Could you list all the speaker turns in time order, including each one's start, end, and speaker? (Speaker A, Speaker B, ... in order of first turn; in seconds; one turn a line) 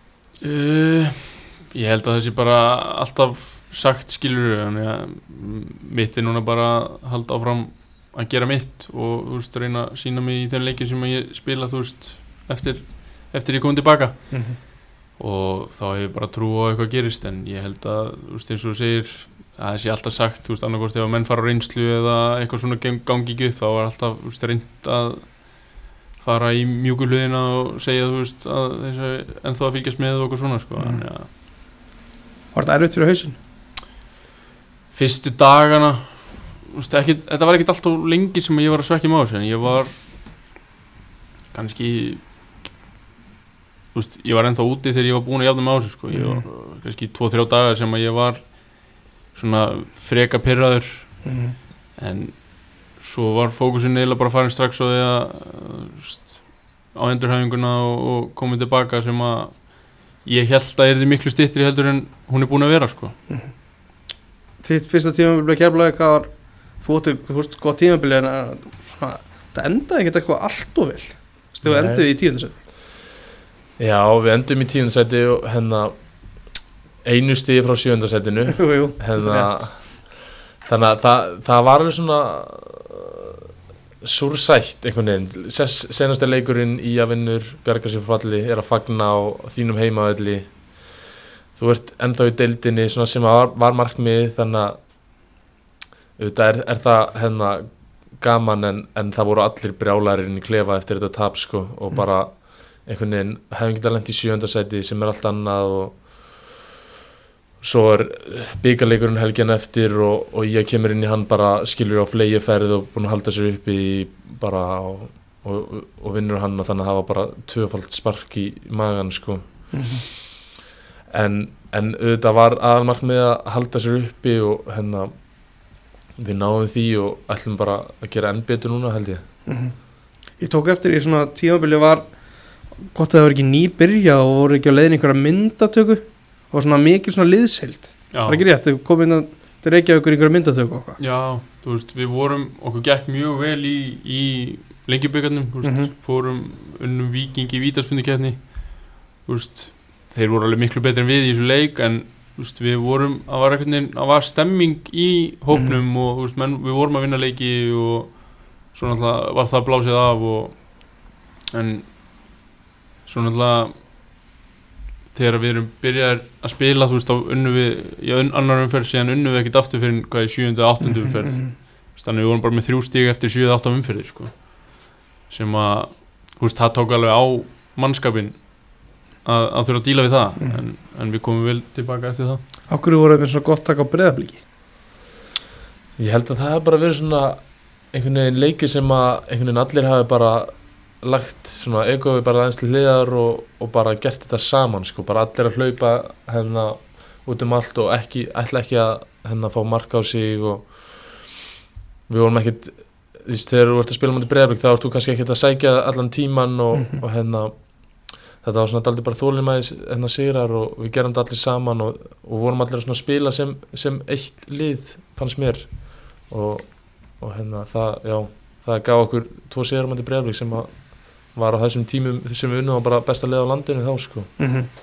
Speaker A: 0.4-31.3
Speaker B: 14.3-14.6
Speaker B: 30.8-31.1
Speaker B: 32.5-33.4
Speaker A: 34.9-40.0
Speaker A: 41.5-42.4
Speaker A: 43.9-51.3
Speaker B: 46.1-46.5
Speaker B: 51.2-51.6
Speaker A: 52.0-63.2
Speaker B: 64.6-72.6
Speaker C: 71.6-72.1
Speaker C: 73.8-75.9
Speaker C: 77.0-83.5
Speaker B: 78.6-79.7
Speaker C: 84.0-91.0
Speaker C: 91.5-94.8
Speaker C: 96.2-106.5
Speaker C: 107.6-119.7
Speaker B: 119.7-120.0
Speaker C: 121.1-125.1
Speaker C: 126.2-129.2
Speaker B: 129.5-129.8
Speaker B: 130.3-141.0
Speaker A: 138.1-138.4
Speaker A: 141.0-162.0
Speaker B: 145.6-145.9
Speaker B: 155.5-155.8
Speaker A: 163.1-163.8
Speaker A: 165.1-182.4
Speaker B: 170.8-171.5
Speaker B: 182.7-184.4
Speaker C: 186.0-201.5
Speaker C: 202.1-224.3
Speaker B: 206.7-207.0
Speaker B: 224.4-224.7